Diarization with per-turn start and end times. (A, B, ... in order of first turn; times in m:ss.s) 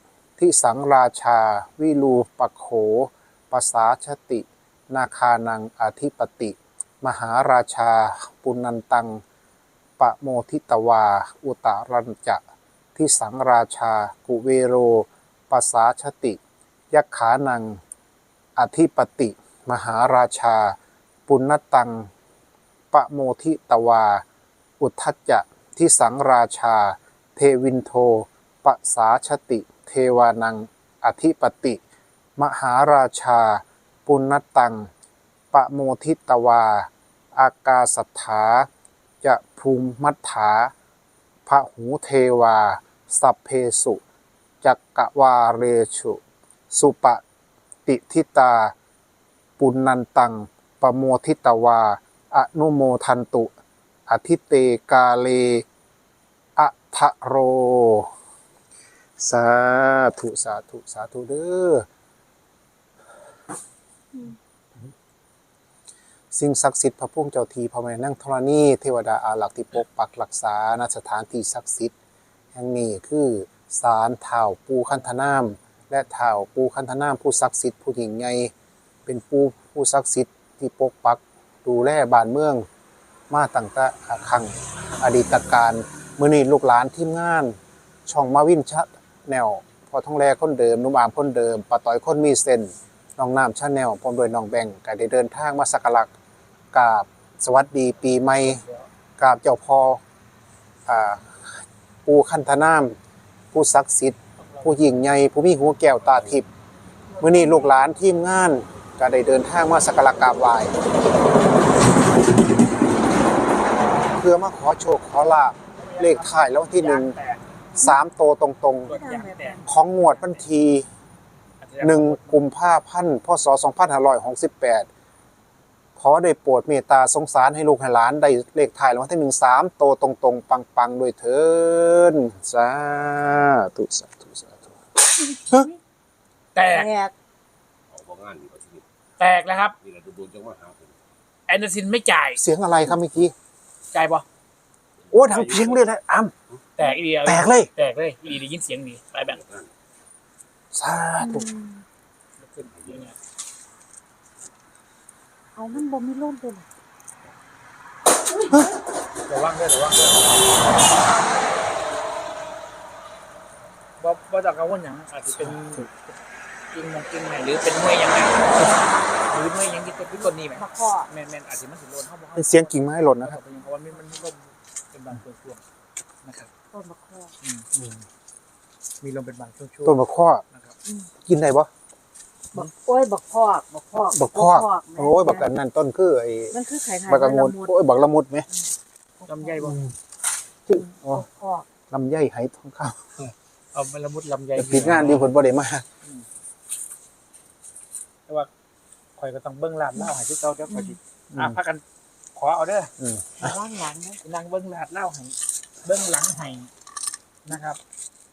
0:00.4-0:09.2 A
0:10.0-0:12.4 A
0:12.9-0:16.4 A
0:16.9-0:17.8 A
0:18.6-0:20.8 A
0:21.3-0:22.1 A
0:22.9-0:24.2 A
0:24.8-0:31.8 A
0:32.4-0:34.9 A
0:35.5-0:38.7 A
0:39.2-0:40.7 A
0:41.4-0:44.0 A
0:44.6-0:46.2 A
0:46.7-0:47.2 A
0:47.8-0:48.7 A
0:49.6-0:53.5 A
0:54.1-0:55.6 A
0:56.6-0:58.1 A
0:59.2-1:01.8 A
1:06.3-1:11.9 A
1:12.5-1:18.5 A
1:19.0-1:22.7 A
1:23.3-1:36.1 A
1:36.7-1:38.6 A
1:39.2-1:40.0 A
1:40.8-1:43.0 A
1:43.5-1:46.5 A
1:44.4-1:44.7 B
1:47.1-1:47.8 C
1:47.2-1:50.7 A
1:54.1-1:57.1 A
1:55.8-1:57.6 B
1:57.8-1:58.9 A
1:58.8-2:00.4 B
1:58.9-1:59.7 C
1:59.6-2:00.9 A
2:01.6-2:02.4 B
2:01.8-2:04.9 A
2:06.0-2:14.8 A
2:15.4-2:15.8 C
2:16.5-2:16.9 B
2:16.7-2:17.1 C
2:17.9-2:18.8 D
2:19.2-2:19.7 B
2:19.8-2:21.0 D
2:21.5-2:22.4 B
2:22.4-2:23.3 A
2:23.9-2:24.2 B
2:25.0-2:25.8 D
2:25.1-2:26.3 A
2:26.8-2:29.4 B
2:27.2-2:27.7 A
2:29.2-2:29.7 D
2:30.7-2:31.5 A
2:31.2-2:31.8 C
2:32.4-2:33.2 B
2:32.7-2:33.0 D
2:35.5-2:36.6 C
2:39.3-2:40.5 B
2:44.0-2:45.9 B
2:45.3-2:45.9 A
2:46.7-2:48.8 B
2:49.3-2:55.6 B
2:50.2-2:51.1 C
2:52.4-2:53.4 A
2:56.2-2:56.5 B
2:56.7-2:57.3 C
2:57.7-2:58.0 A
2:59.0-3:00.8 B
2:59.8-3:00.4 A
3:00.8-3:01.1 C
3:01.2-3:01.7 A
3:02.5-3:05.5 C
3:04.1-3:06.6 A
3:06.5-3:07.7 C
3:07.1-3:08.5 A
3:08.5-3:09.7 C
3:09.3-3:09.8 B
3:09.6-3:09.9 A
3:10.7-3:11.2 A
3:10.7-3:11.7 C
3:11.9-3:13.0 A
3:13.2-3:15.3 B
3:14.5-3:15.8 A
3:19.2-3:21.8 B
3:21.3-3:21.6 A
3:22.3-3:22.9 B
3:23.0-3:23.6 A
3:23.4-3:24.2 C
3:24.2-3:26.7 B
3:27.4-3:27.8 B